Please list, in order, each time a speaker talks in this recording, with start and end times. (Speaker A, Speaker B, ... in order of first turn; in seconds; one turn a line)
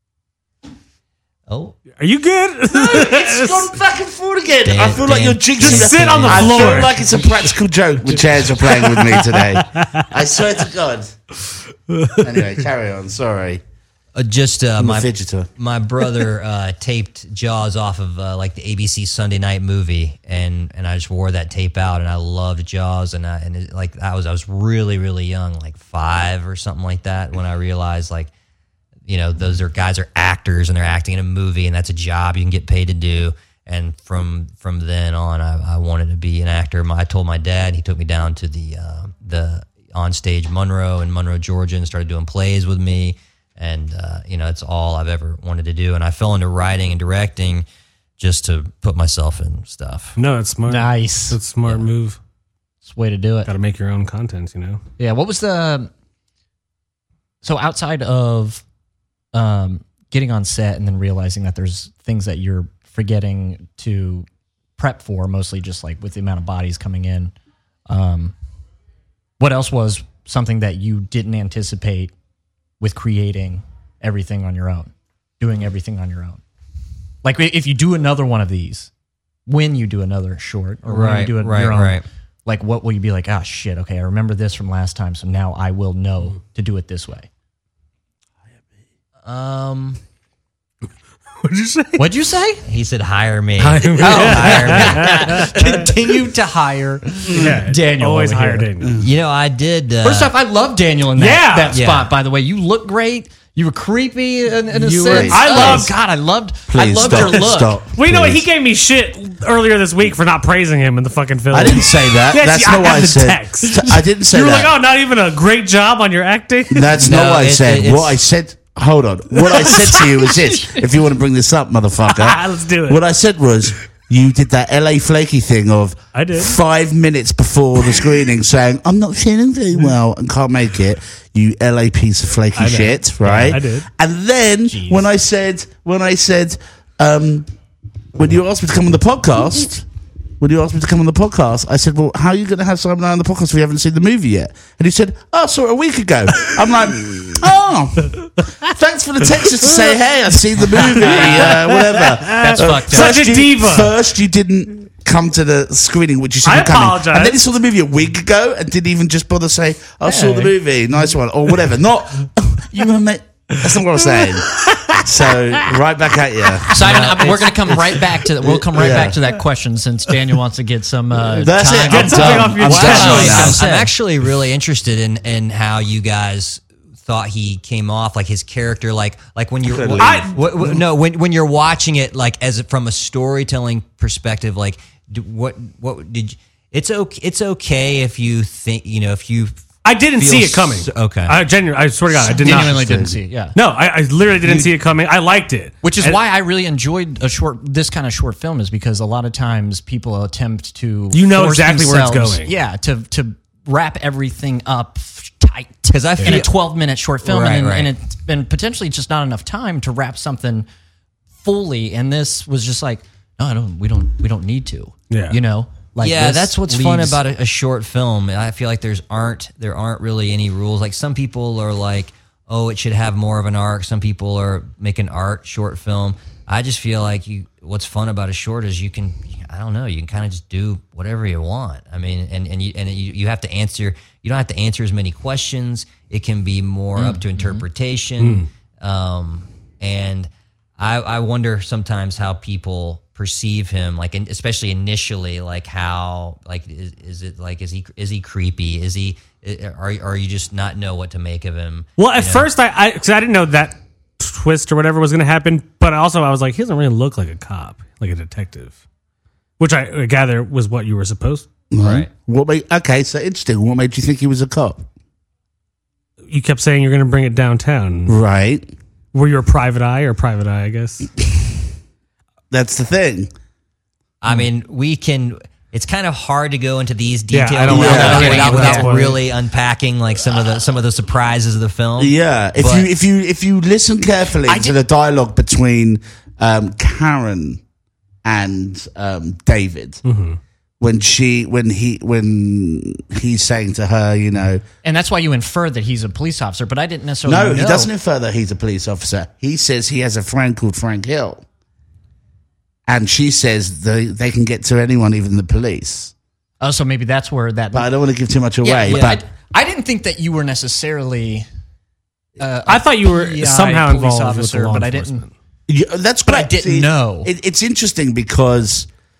Speaker A: 1.5-1.8
Speaker B: 2.0-3.7
Speaker C: 2.7-11.1
Speaker A: 4.7-6.9
Speaker B: 5.6-7.5
Speaker B: 8.5-10.0
Speaker B: 11.9-12.3
Speaker C: 12.2-13.6
Speaker A: 14.2-28.3
Speaker C: 14.8-15.5
Speaker A: 29.1-47.7
Speaker A: 48.2-50.2
Speaker B: 50.2-52.2
Speaker D: 50.7-51.4
Speaker D: 52.9-53.5
Speaker B: 53.5-54.8
Speaker D: 55.0-55.9
Speaker D: 57.4-58.6
Speaker D: 59.3-67.3
Speaker D: 67.9-68.3
Speaker D: 69.4-72.1
Speaker D: 72.8-76.4
Speaker D: 77.2-78.9
Speaker D: 79.5-87.3
Speaker A: 80.9-82.0
Speaker A: 89.2-90.0
Speaker B: 91.4-92.0
Speaker D: 92.0-92.6
Speaker A: 92.6-95.5
Speaker B: 93.6-96.0
Speaker D: 94.0-98.7
Speaker C: 97.2-97.6
Speaker B: 97.3-99.0
Speaker C: 98.8-99.1
Speaker A: 99.0-100.3
Speaker D: 100.0-107.8
Speaker B: 101.2-101.8
Speaker A: 101.7-102.1
Speaker C: 104.7-105.9
Speaker B: 105.1-105.9
Speaker C: 106.7-108.5
Speaker B: 107.1-107.4
Speaker B: 107.9-117.0
Speaker C: 111.5-114.8
Speaker C: 116.7-137.5
Speaker A: 117.0-118.2
Speaker B: 122.1-123.0
Speaker B: 126.1-126.6
Speaker B: 132.6-133.9
Speaker D: 133.2-133.6
Speaker D: 134.7-135.1
Speaker C: 138.2-139.9
Speaker C: 140.4-167.1
Speaker B: 150.8-153.9
Speaker D: 151.1-151.5
Speaker D: 152.4-153.4
Speaker B: 156.4-157.4
Speaker B: 160.1-160.5
Speaker D: 160.1-160.5
Speaker B: 164.1-165.0
Speaker D: 166.7-173.9
Speaker A: 166.8-167.8
Speaker C: 168.4-169.2
Speaker C: 171.2-173.6
Speaker B: 171.8-173.6
Speaker A: 172.7-191.4
Speaker C: 179.7-180.8
Speaker B: 180.0-180.4
Speaker B: 189.8-193.0
Speaker D: 192.1-193.6
Speaker C: 192.2-193.2
Speaker B: 193.6-196.2
Speaker D: 195.8-210.7
Speaker B: 201.1-202.5
Speaker A: 205.9-206.6
Speaker A: 207.2-207.9
Speaker D: 211.4-217.2
Speaker B: 215.1-215.4
Speaker A: 216.0-252.5
Speaker D: 237.0-237.7
Speaker B: 238.2-238.5
Speaker B: 252.0-258.8
Speaker B: 259.6-261.5
Speaker C: 261.7-264.9
Speaker A: 261.8-262.1
Speaker B: 266.3-268.2
Speaker C: 268.1-268.7
Speaker B: 269.1-271.1
Speaker C: 272.5-273.3
Speaker A: 274.2-282.9
Speaker B: 277.3-279.2
Speaker C: 277.7-278.3
Speaker D: 277.7-279.1
Speaker C: 282.0-287.6
Speaker D: 284.5-284.8
Speaker C: 288.2-290.0
Speaker B: 290.1-290.4
Speaker C: 290.8-294.6
Speaker D: 294.8-297.9
Speaker C: 297.2-301.4
Speaker C: 302.9-306.1
Speaker D: 306.6-307.9
Speaker C: 307.7-309.2
Speaker D: 308.6-311.5
Speaker A: 308.9-309.2
Speaker D: 312.4-315.3
Speaker B: 312.7-315.3
Speaker C: 315.7-318.9
Speaker D: 316.3-317.3